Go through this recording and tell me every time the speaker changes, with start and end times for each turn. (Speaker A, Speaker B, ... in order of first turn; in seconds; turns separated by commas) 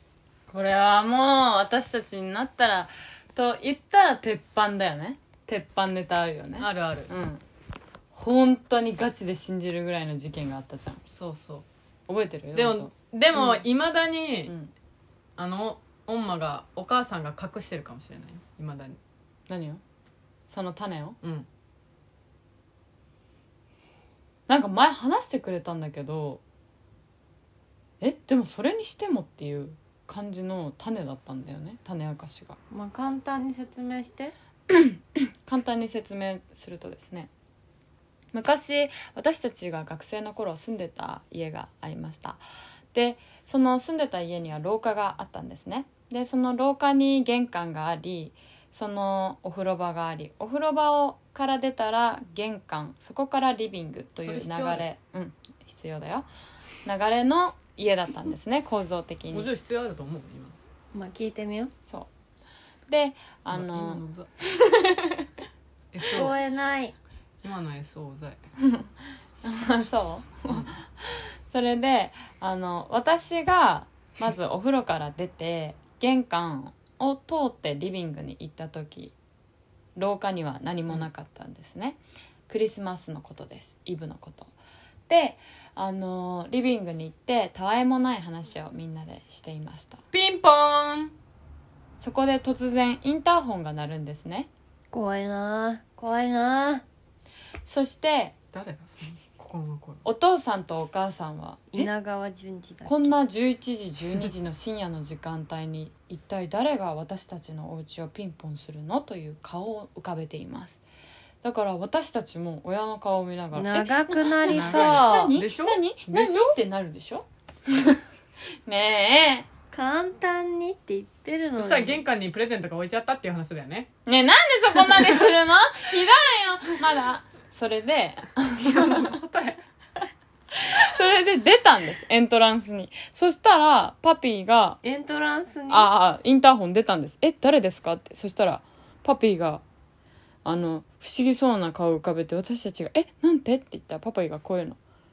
Speaker A: 0.5-7.4, Speaker B: 6.6-7.1, Speaker A: 8.1-11.0, Speaker B: 11.1-11.6, Speaker A: 12.1-13.6, Speaker B: 12.5-14.5, Speaker A: 14.4-14.7, Speaker B: 15.4-19.0, Speaker A: 19.5-19.8, Speaker A: 20.5-21.2, Speaker B: 21.2-21.5, Speaker A: 24.5-26.4, Speaker A: 28.0-32.6, Speaker C: 32.7-34.3, Speaker A: 34.7-37.3, Speaker A: 38.3-42.4, Speaker A: 42.9-56.3, Speaker B: 54.2-54.9, Speaker A: 56.8-59.5, Speaker B: 59.3-60.5, Speaker C: 60.9-61.7, Speaker A: 62.9-65.2, Speaker B: 63.5-64.3, Speaker B: 65.9-66.4, Speaker C: 66.1-66.9, Speaker B: 67.4-68.4, Speaker A: 68.6-68.9, Speaker A: 69.4-79.1, Speaker A: 80.0-84.5, Speaker A: 85.1-90.0, Speaker B: 90.1-91.1, Speaker A: 92.0-94.5, Speaker C: 94.9-96.8, Speaker A: 97.7-98.3, Speaker B: 98.5-100.0, Speaker A: 100.0-101.9, Speaker C: 101.7-103.1, Speaker A: 102.8-110.8, Speaker A: 111.4-118.0, Speaker C: 113.5-115.3, Speaker B: 114.4-116.5, Speaker A: 118.7-119.5, Speaker C: 119.7-122.0, Speaker B: 121.6-123.9, Speaker A: 124.0-129.1, Speaker B: 124.8-125.3, Speaker B: 128.6-129.6, Speaker A: 130.5-134.8, Speaker C: 134.8-135.9, Speaker A: 135.7-139.6, Speaker A: 140.4-144.8